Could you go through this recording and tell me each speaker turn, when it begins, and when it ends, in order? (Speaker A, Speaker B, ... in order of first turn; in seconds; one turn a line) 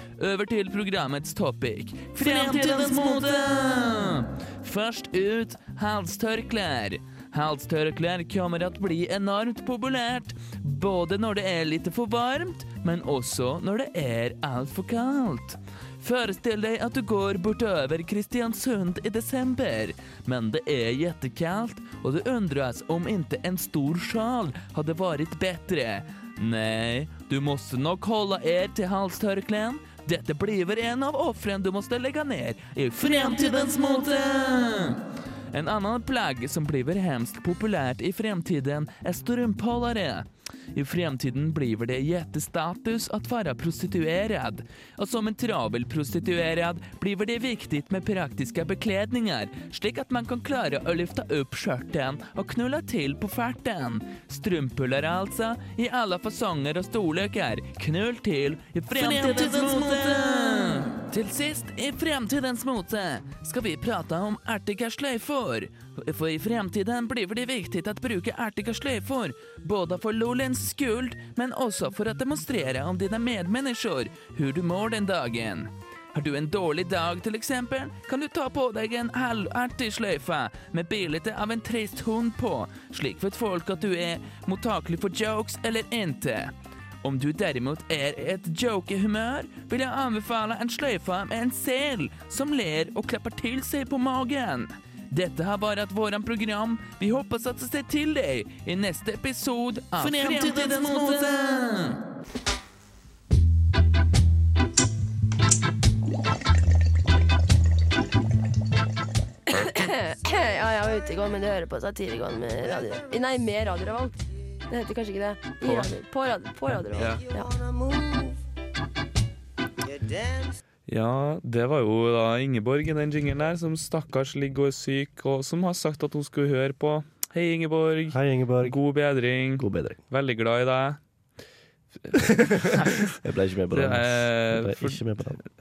Speaker A: 0.2-86.5
Speaker A: 87.0-102.0
Speaker B: 109.5-114.2
Speaker B: 114.7-117.7
Speaker C: 115.6-115.9
Speaker C: 116.9-117.2
Speaker C: 120.9-131.0
Speaker D: 128.1-128.8
Speaker D: 129.6-130.0
Speaker C: 132.0-133.1
Speaker D: 132.2-135.4
Speaker C: 133.7-135.0